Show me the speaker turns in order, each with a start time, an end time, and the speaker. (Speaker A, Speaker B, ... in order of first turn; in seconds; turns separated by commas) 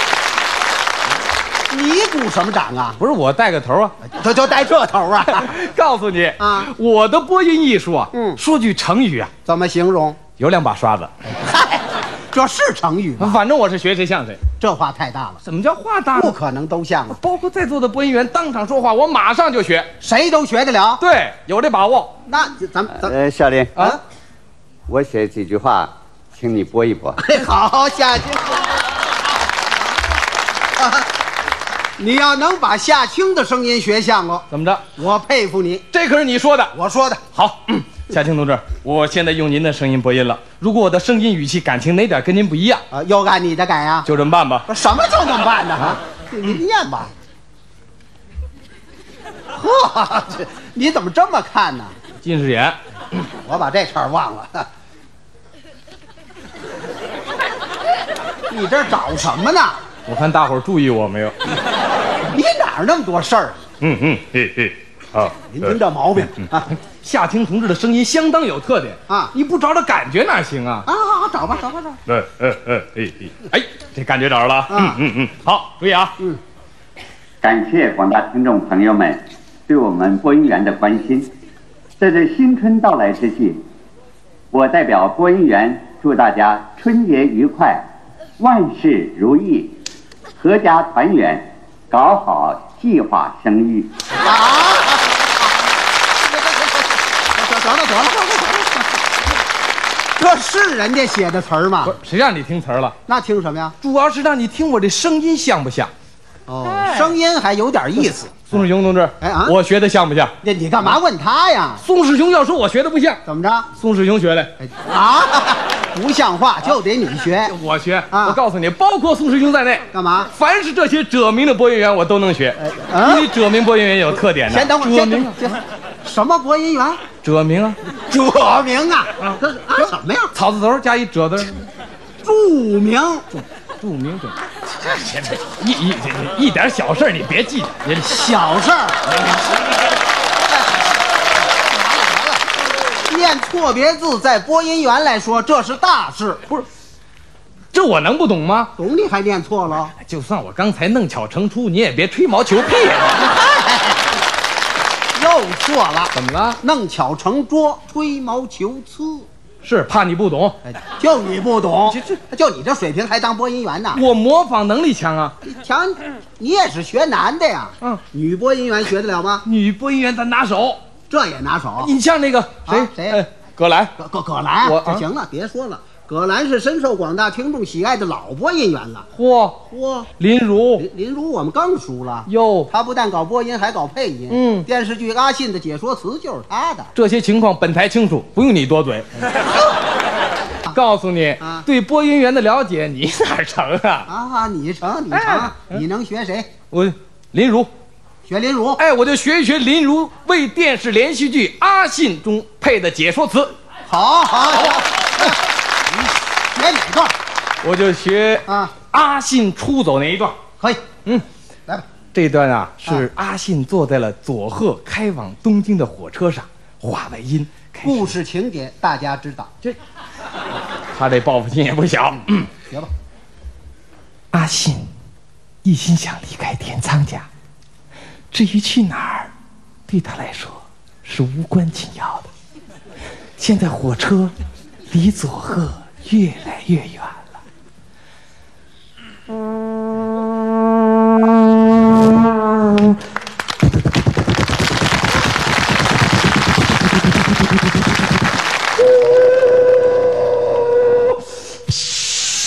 Speaker A: 1.7-3.0, Speaker B: 3.0-4.0, Speaker A: 4.0-5.5, Speaker B: 5.3-9.3, Speaker A: 6.4-6.7, Speaker A: 8.1-8.4, Speaker A: 9.5-10.2, Speaker B: 10.4-11.1, Speaker A: 11.3-13.4, Speaker B: 13.2-14.4, Speaker A: 14.6-15.4, Speaker B: 15.4-16.4, Speaker A: 16.1-17.2, Speaker B: 17.1-19.9, Speaker A: 20.0-21.0, Speaker B: 21.0-22.1, Speaker A: 22.3-23.1, Speaker C: 23.0-23.7, Speaker C: 24.9-27.2, Speaker A: 27.1-28.7, Speaker A: 30.8-31.1, Speaker A: 32.0-35.9, Speaker B: 34.5-34.8, Speaker B: 35.9-36.7, Speaker A: 36.7-37.2, Speaker B: 37.3-42.8, Speaker A: 42.9-44.1, Speaker B: 44.0-44.7, Speaker A: 44.7-47.1, Speaker A: 49.5-52.0, Speaker B: 52.2-52.8, Speaker A: 53.4-54.7, Speaker A: 58.5-59.8, Speaker B: 60.1-61.4, Speaker A: 62.3-63.7, Speaker B: 63.8-65.7, Speaker A: 65.5-66.7, Speaker B: 66.3-70.9, Speaker A: 69.1-69.3, Speaker A: 70.9-72.0, Speaker B: 72.1-76.2, Speaker A: 74.7-75.0, Speaker C: 77.4-81.3, Speaker C: 82.0-83.6, Speaker C: 84.5-87.9, Speaker C: 88.4-89.8, Speaker C: 90.4-93.9, Speaker A: 94.2-95.3, Speaker A: 96.4-99.1, Speaker A: 100.2-102.0, Speaker B: 101.8-103.0, Speaker A: 103.1-103.8, Speaker B: 103.8-105.9, Speaker A: 106.5-108.7, Speaker B: 106.7-107.1, Speaker B: 108.0-110.3, Speaker A: 109.2-109.6, Speaker A: 110.4-111.8, Speaker B: 111.8-113.2, Speaker A: 113.2-113.7, Speaker B: 113.8-114.5, Speaker A: 114.6-117.5, Speaker B: 117.5-125.4, Speaker A: 118.1-118.4, Speaker A: 119.9-120.3, Speaker A: 122.6-123.3, Speaker A: 124.1-127.0, Speaker B: 127.2-127.8, Speaker A: 127.9-130.3, Speaker B: 129.2-131.5, Speaker A: 132.2-133.3, Speaker B: 133.3-134.4, Speaker B: 135.1-138.3, Speaker A: 138.0-139.0, Speaker B: 139.1-139.5, Speaker A: 141.5-142.5, Speaker A: 143.0-146.4, Speaker B: 147.7-148.7, Speaker A: 148.8-149.9, Speaker B: 150.0-153.4, Speaker A: 153.3-154.0, Speaker A: 155.1-159.3, Speaker B: 156.1-156.6, Speaker B: 159.6-160.6, Speaker A: 160.7-164.0, Speaker B: 161.9-162.2, Speaker B: 163.9-165.3, Speaker A: 165.4-169.5, Speaker B: 169.5-170.8, Speaker A: 171.1-171.9, Speaker B: 171.8-173.9, Speaker A: 172.7-173.2, Speaker A: 174.0-179.1, Speaker B: 174.6-175.0, Speaker B: 179.2-179.6, Speaker A: 179.7-180.1, Speaker B: 180.2-180.8, Speaker A: 180.8-186.9, Speaker B: 182.3-182.7, Speaker B: 184.3-184.7, Speaker B: 186.9-189.2, Speaker B: 190.7-194.1, Speaker A: 194.1-196.5, Speaker B: 195.1-195.8, Speaker B: 196.7-197.7, Speaker A: 198.2-198.8, Speaker B: 198.8-203.5, Speaker A: 203.9-207.2, Speaker B: 204.7-205.3, Speaker B: 207.6-210.3, Speaker A: 208.5-208.8, Speaker B: 212.1-218.2, Speaker A: 217.8-219.5, Speaker B: 220.9-222.5, Speaker A: 222.6-222.9, Speaker B: 224.3-224.9, Speaker B: 225.6-227.3, Speaker B: 228.3-229.3, Speaker B: 229.9-232.3, Speaker B: 233.4-234.3, Speaker B: 234.9-237.4